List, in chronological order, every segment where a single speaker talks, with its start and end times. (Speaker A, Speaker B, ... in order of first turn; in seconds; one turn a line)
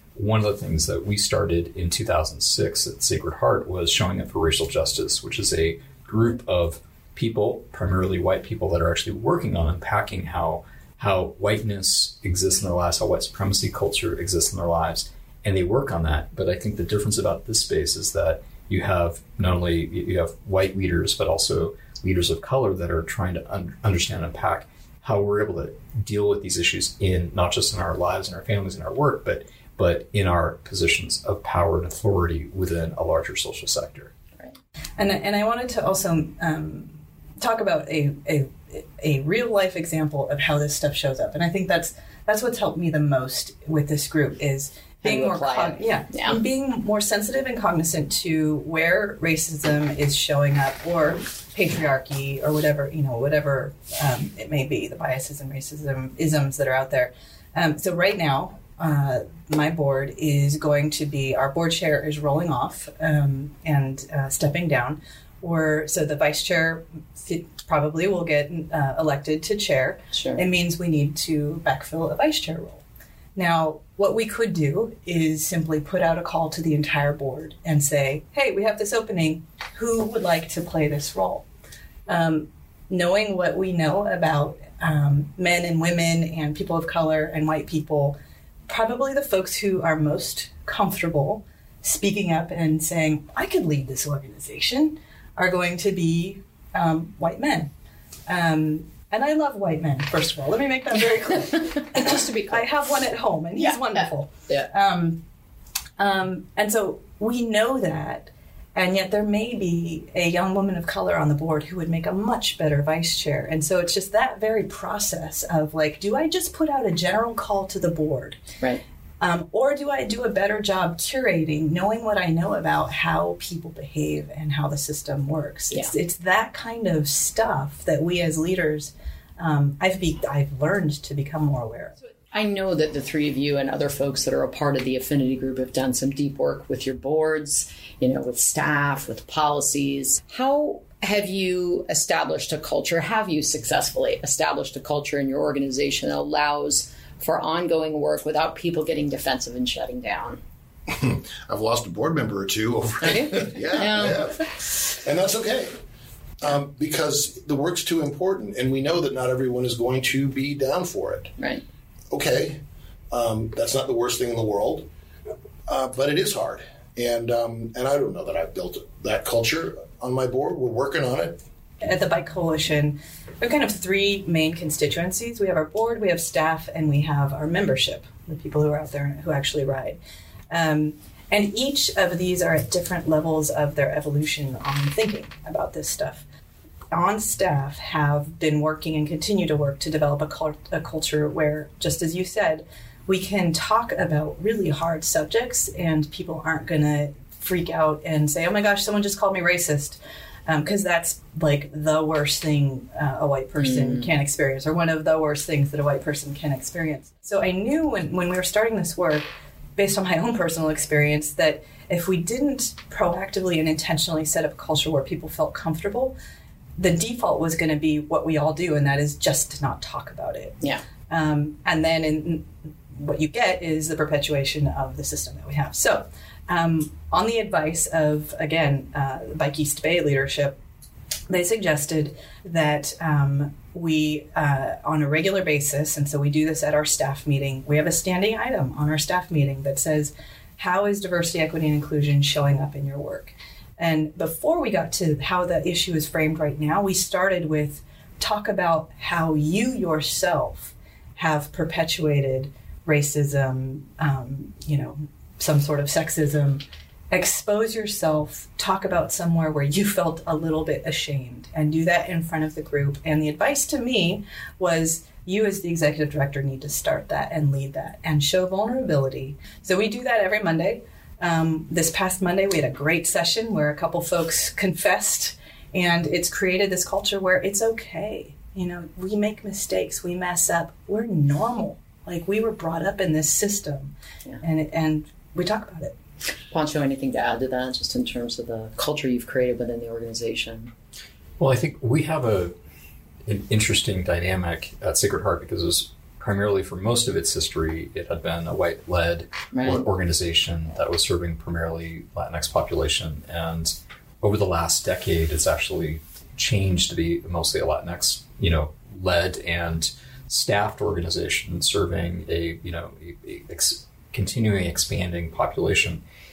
Speaker A: 0.2-34.1
Speaker B: 35.0-72.8
Speaker C: 45.0-46.4
Speaker C: 70.1-70.4
Speaker B: 73.4-81.5
Speaker B: 82.1-97.7
Speaker B: 98.3-105.2
Speaker B: 106.0-118.4
Speaker B: 119.2-131.9
Speaker C: 132.3-150.4
Speaker D: 150.9-155.7
Speaker C: 153.0-154.2
Speaker D: 156.4-161.3
Speaker C: 161.4-161.6
Speaker D: 162.1-162.6
Speaker D: 163.1-164.9
Speaker D: 165.7-171.4
Speaker B: 171.8-180.0
Speaker B: 180.5-186.2
Speaker B: 186.9-216.2
Speaker C: 203.6-204.1
Speaker B: 216.8-230.6
Speaker B: 231.3-285.9
Speaker C: 286.5-290.7
Speaker A: 291.4-292.5
Speaker A: 293.3-316.0
Speaker C: 299.5-299.8